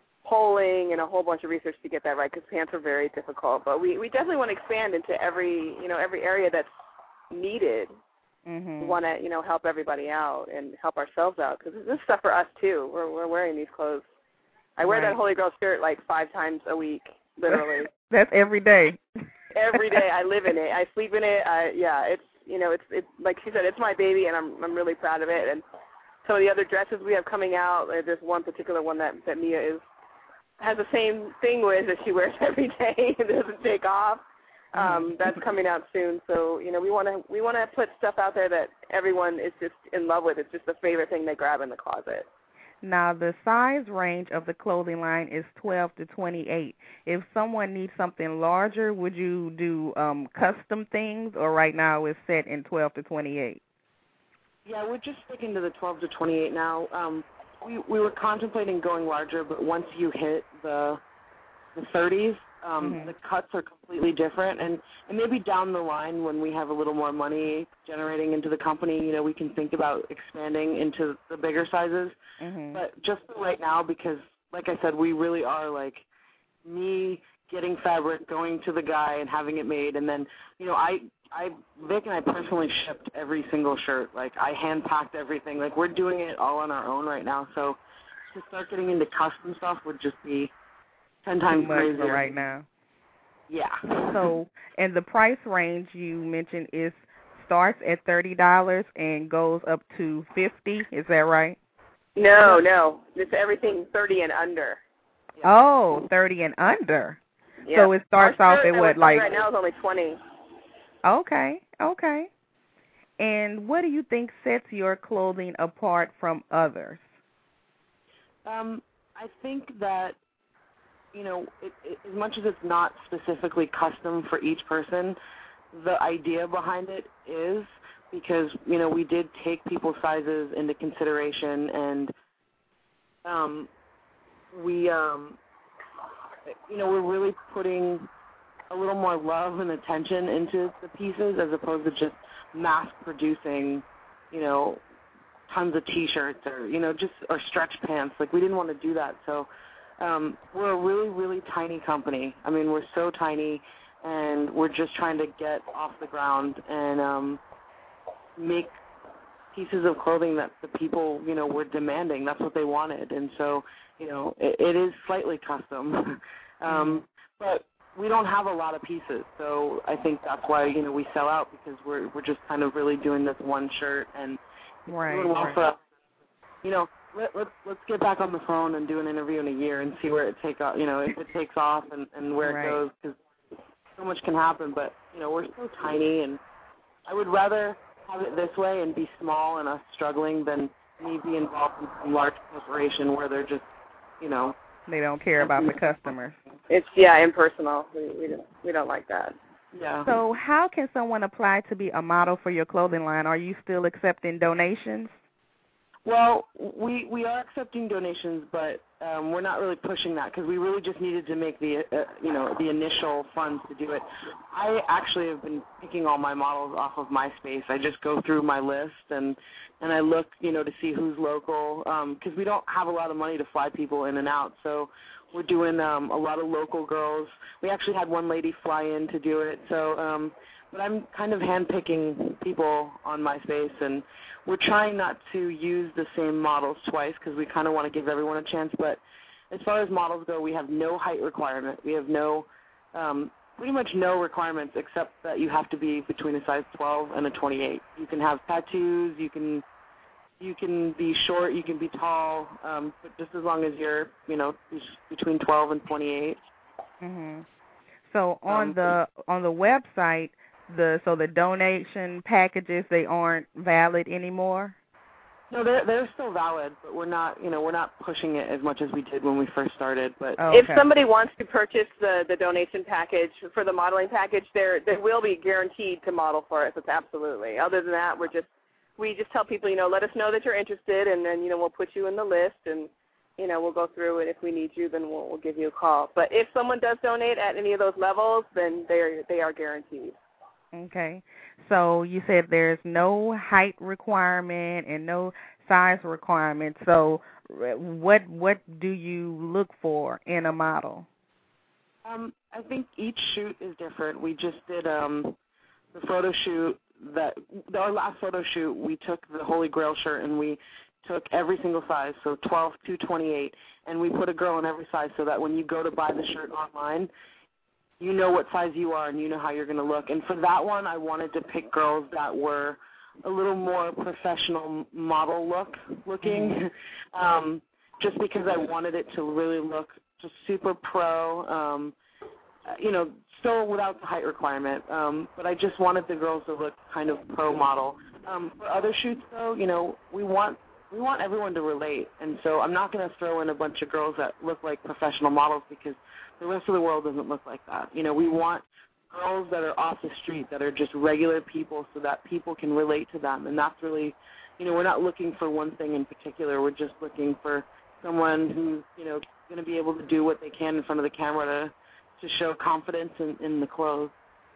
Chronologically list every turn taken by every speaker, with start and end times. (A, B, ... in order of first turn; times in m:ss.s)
0:00.2-0:06.7 A
0:07.3-0:07.9 A
0:08.4-0:09.0 B
0:08.8-0:14.0 A
0:14.8-0:17.9 A
0:14.8-0:15.2 B
0:17.5-0:19.0 B
0:19.5-0:25.6 A
0:26.2-0:29.8 A
0:30.6-0:34.2 A
0:34.7-0:42.2 A
0:34.7-0:35.1 B
0:42.8-0:53.6 B
0:54.6-1:01.0 C
1:01.7-1:12.2 C
1:02.8-1:03.1 B
1:12.4-1:12.8 B
1:12.7-1:16.0 C
1:16.6-1:27.8 C
1:28.3-1:30.5 C
1:31.2-1:32.2 C
1:31.5-1:32.6 B
1:33.5-1:34.3 C
1:34.1-1:41.6 B
1:42.2-1:44.8 A
1:45.4-1:47.2 B
1:47.6-1:50.2 A
1:47.7-1:49.3 B
1:51.0-1:52.3 B
1:53.2-1:57.0 B
1:58.4-2:00.2 C
2:01.1-2:05.2 C
2:05.7-2:12.1 C
2:13.2-2:13.7 C
2:14.5-2:15.4 C
2:16.4-2:18.1 C
2:18.7-2:24.8 C
2:25.5-2:29.5 C
2:30.0-2:37.4 C
2:38.4-2:38.8 C
2:39.5-2:55.8 C
2:46.6-2:47.0 B
2:54.9-2:55.6 B
2:56.6-3:03.2 C
3:02.4-3:02.8 B
3:04.0-3:06.4 C
3:07.1-3:13.7 C
3:14.2-3:14.5 C
3:14.9-3:16.4 B
3:15.4-3:15.8 C
3:16.7-3:19.3 A
3:19.7-3:20.2 C
3:20.0-3:25.1 B
3:26.0-3:59.0 C
3:59.5-4:09.6 C
4:10.4-4:16.4 C
4:17.0-4:17.4 B
4:18.1-4:24.7 B
4:18.5-4:18.9 C
4:25.5-4:30.4 C
4:30.4-4:30.8 B
4:30.5-4:50.2 A
4:50.7-5:01.0 B
5:02.0-5:05.3 C
5:05.9-5:17.1 C
5:18.0-5:31.9 C
5:26.2-5:26.6 B
5:32.7-6:04.1 C